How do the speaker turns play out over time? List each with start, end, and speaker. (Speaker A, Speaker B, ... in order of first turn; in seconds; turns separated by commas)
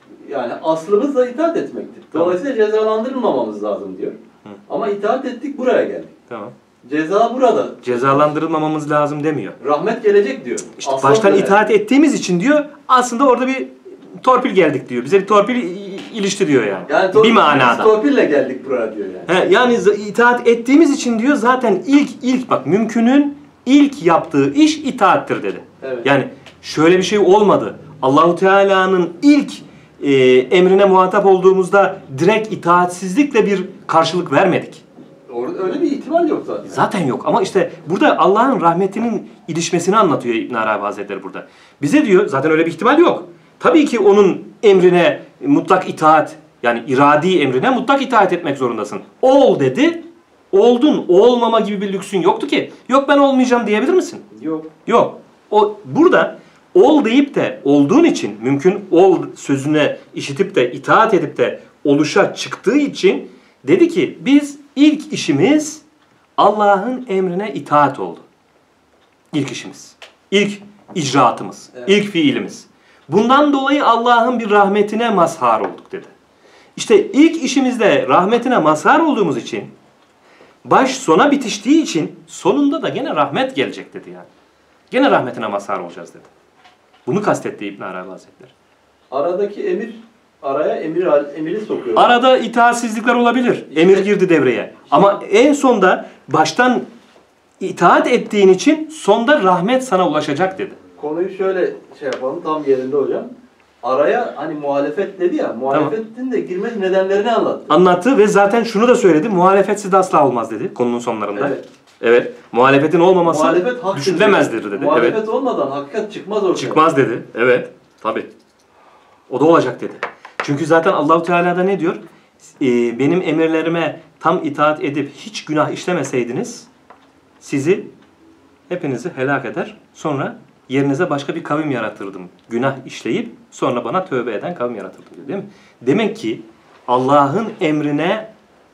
Speaker A: 0.2-4.2, Speaker B: 2.1-2.4, Speaker A: 4.7-6.1, Speaker B: 6.3-6.5, Speaker A: 6.8-8.3, Speaker B: 7.8-9.6, Speaker A: 9.6-11.6, Speaker B: 10.8-17.9, Speaker A: 16.9-19.4, Speaker B: 19.3-34.8, Speaker A: 25.8-26.1, Speaker A: 35.3-36.9, Speaker B: 36.7-54.3, Speaker A: 54.3-54.7, Speaker B: 54.9-65.8, Speaker B: 66.4-68.2, Speaker B: 69.3-76.1, Speaker B: 76.8-79.7, Speaker B: 80.7-84.3, Speaker B: 84.9-86.3, Speaker B: 87.1-88.5, Speaker A: 89.1-92.1, Speaker B: 92.0-96.9, Speaker A: 93.7-94.1, Speaker B: 97.6-100.8, Speaker A: 101.0-103.3, Speaker A: 103.8-107.8, Speaker B: 107.7-115.2, Speaker A: 111.3-111.6, Speaker A: 113.2-116.8, Speaker B: 116.5-118.3, Speaker B: 119.3-122.0, Speaker B: 122.6-126.7, Speaker B: 127.4-127.9, Speaker B: 128.7-138.3